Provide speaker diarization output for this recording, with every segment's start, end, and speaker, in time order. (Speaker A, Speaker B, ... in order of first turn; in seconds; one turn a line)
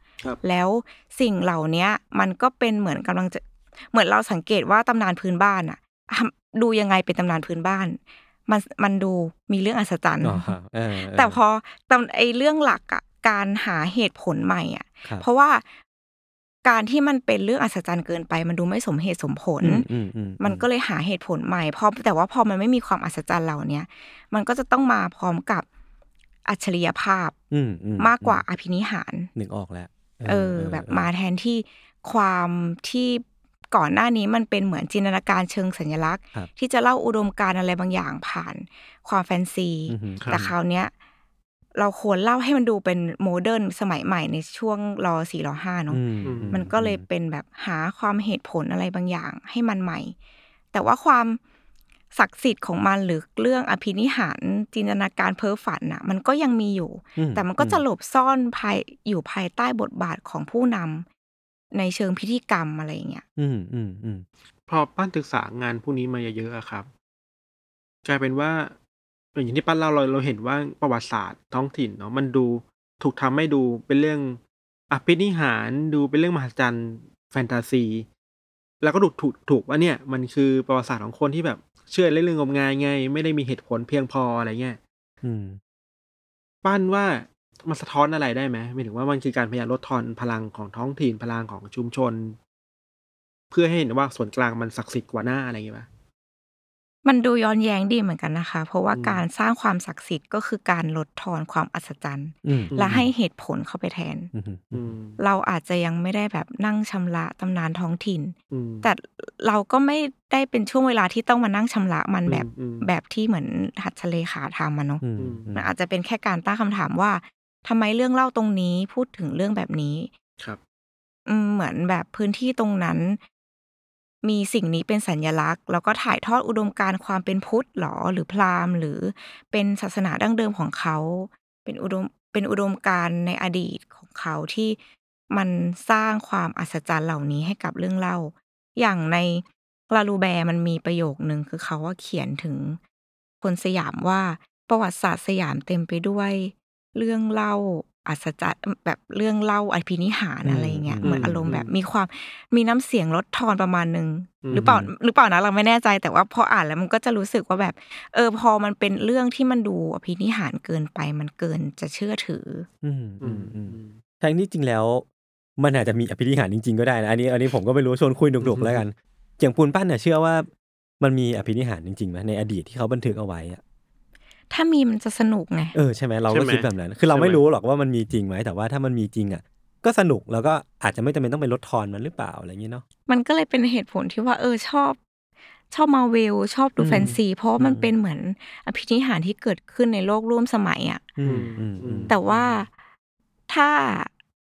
Speaker A: 0.4-15.6
Speaker B: 10.2-11.4
Speaker A: 16.6-19.9
Speaker B: 19.6-20.6
Speaker A: 20.4-25.6
Speaker A: 26.5-27.4
Speaker B: 27.5-28.4
Speaker A: 28.0-29.3
Speaker B: 29.3-31.1
Speaker A: 30.2-40.9
Speaker B: 39.9-40.5
Speaker C: 40.2-40.5
Speaker A: 41.7-50.1
Speaker B: 45.9-47.0
Speaker C: 46.2-46.6
Speaker A: 50.7-51.4
Speaker A: 52.1-61.0
Speaker B: 57.1-57.8
Speaker A: 61.7-63.2
Speaker B: 63.4-64.2
Speaker C: 64.7-66.9
Speaker C: 68.0-68.7
Speaker C: 69.3-74.4
Speaker C: 74.9-78.0
Speaker C: 78.8-84.8
Speaker B: 85.2-85.6
Speaker C: 86.6-92.4
Speaker C: 93.5-95.9
Speaker A: 97.0-104.3
Speaker C: 98.9-99.2
Speaker B: 102.4-103.1
Speaker C: 102.7-103.0
Speaker B: 104.3-104.9
Speaker C: 104.7-105.2
Speaker A: 105.2-115.0
Speaker C: 108.5-108.9
Speaker C: 112.3-112.9
Speaker B: 115.0-115.7
Speaker C: 115.2-115.5
Speaker A: 115.5-120.1
Speaker A: 121.3-123.2
Speaker A: 124.2-134.8
Speaker A: 135.3-142.8
Speaker A: 143.4-162.7
Speaker B: 150.4-151.6
Speaker C: 151.0-151.7
Speaker C: 154.4-154.7
Speaker B: 154.5-154.9
Speaker B: 162.8-165.1
Speaker C: 163.2-164.0
Speaker B: 165.6-170.5
Speaker C: 168.4-168.8
Speaker B: 171.0-173.6
Speaker A: 174.5-175.8
Speaker B: 175.7-182.8
Speaker C: 176.3-177.4
Speaker A: 183.1-185.0
Speaker A: 185.7-191.0
Speaker B: 186.8-187.9
Speaker C: 186.9-187.2
Speaker B: 191.2-192.2
Speaker C: 191.2-192.5
Speaker A: 192.1-192.7
Speaker A: 193.5-194.1